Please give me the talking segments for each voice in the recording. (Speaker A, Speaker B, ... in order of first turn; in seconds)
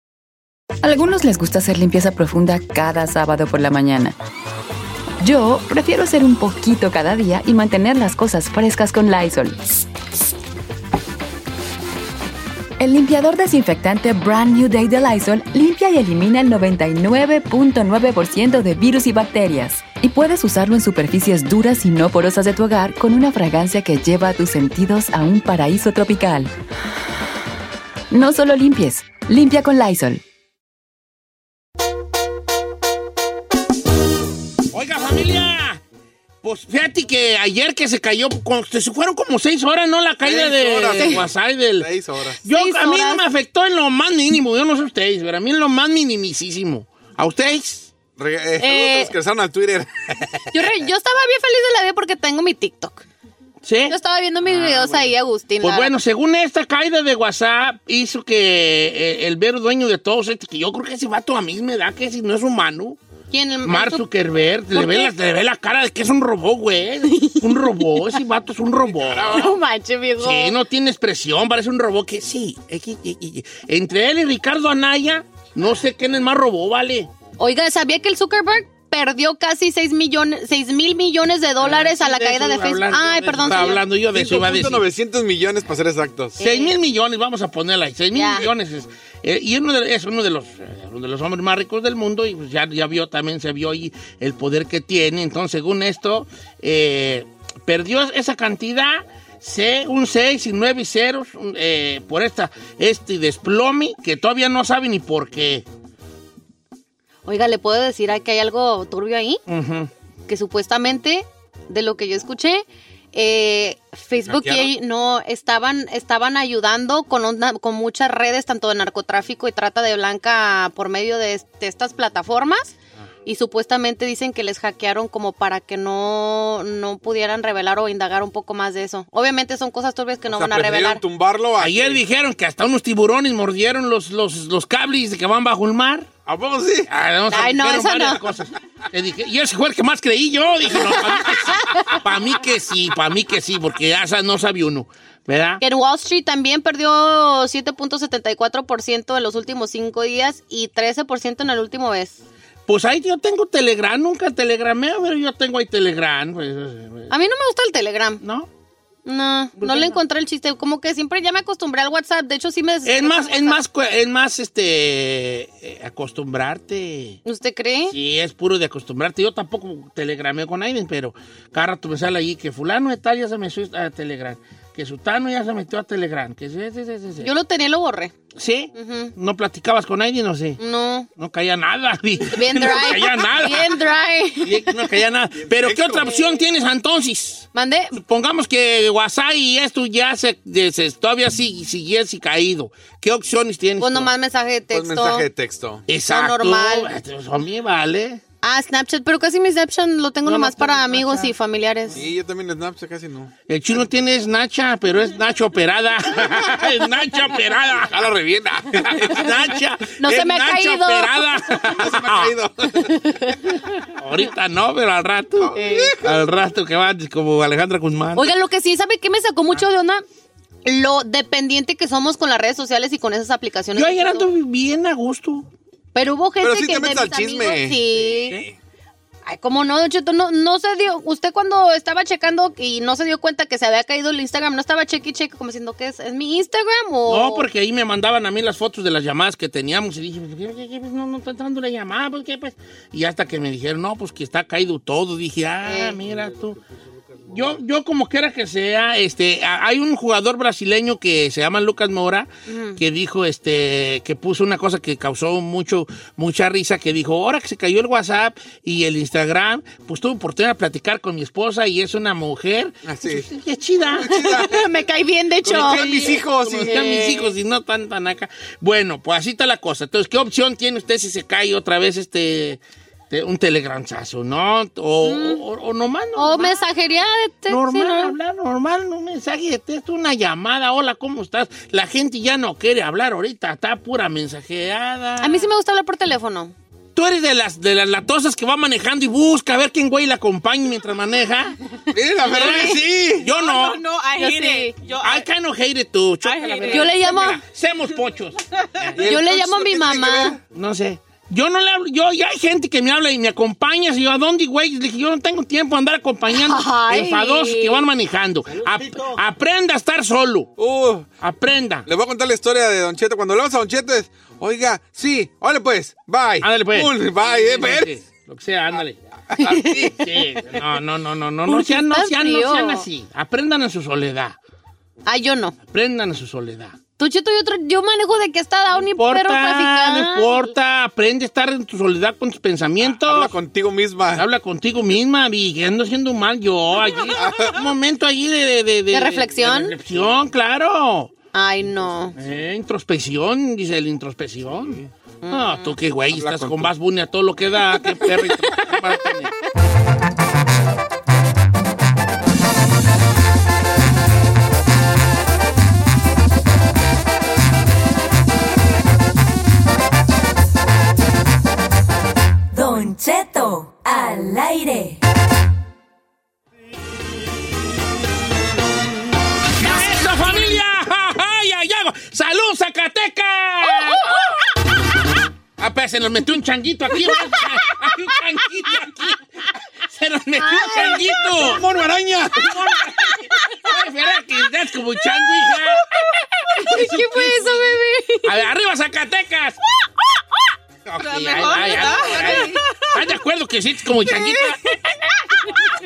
Speaker A: 0.8-4.2, 5.2-9.6, 12.8-26.5, 28.1-30.2
Speaker B: 34.7-35.8, 36.4-41.9, 42.4-47.9, 53.6-63.0, 63.6-69.5, 70.2-77.1, 81.6-84.8, 86.4-105.7, 109.5-109.9, 131.6-136.1, 136.9-145.6, 152.7-157.1, 158.2-158.5, 159.6-160.0, 162.8-167.2, 167.9-177.3, 178.3-180.6, 181.2-183.8, 184.4-194.1, 195.9-198.2, 200.2-201.3, 203.5-207.9, 208.9-212.3, 213.8-218.3, 223.8-225.5, 237.1-246.6, 247.3-264.3, 265.6-276.6, 277.5-285.5, 286.9-291.6, 292.2-293.8, 295.0-299.0, 300.5-310.5, 311.2-311.9, 316.4-319.0, 319.9-324.4, 325.7-326.8, 328.8-333.3, 334.1-341.1, 342.1-349.3, 369.6-374.1, 375.6-381.6, 382.4-385.9, 386.5-389.6, 390.9-394.8
Speaker C: 40.2-42.4, 48.2-50.4, 68.9-69.5, 83.5-86.4, 114.3-114.7, 130.3-132.0, 136.3-136.9, 185.5-186.2, 194.7-195.8, 201.9-203.3, 207.9-209.3, 211.5-213.2, 215.4-216.2, 226.4-228.5, 262.9-263.3, 263.9-264.6, 265.4-266.8, 291.9-293.3, 299.0-300.4, 310.6-311.1, 311.9-317.9, 319.3-320.0, 332.8-334.3, 337.1-337.6, 344.6-344.9, 346.1-346.7, 381.3-382.4
Speaker D: 40.9-41.2, 42.5-43.2, 48.6-49.1, 50.5-53.0, 53.9-55.9, 63.3-64.0, 64.7-65.1, 69.3-70.5, 77.4-83.8, 86.4-86.8, 88.1-88.5, 107.3-109.4, 110.3-122.7, 123.3-131.0, 137.3-138.2, 145.6-152.2, 157.1-158.2, 159.1-163.6, 167.2-167.9, 177.2-178.1, 178.8-179.1, 180.6-181.1, 182.3-184.6, 187.5-188.0, 193.8-195.3, 196.1-196.9, 198.4-202.0, 210.0-211.3, 212.8-213.4, 215.6-215.9, 218.2-220.0, 220.7-224.3, 225.9-228.4, 229.3-237.5, 245.7-246.0, 252.5-252.8, 264.1-267.3, 275.0-275.4, 276.2-278.1, 285.2-286.5, 292.2-292.8, 294.2-294.8, 296.7-297.4, 299.0-300.4, 306.3-307.9, 319.4-319.9, 321.5-322.9, 325.1-325.6, 327.0-330.5, 338.9-339.7, 341.3-342.1, 345.2-345.8, 380.4-381.3, 386.6-388.4, 391.8-392.6
Speaker E: 293.3-295.3, 296.2-297.1, 391.0-392.9
Speaker F: 362.5-365.0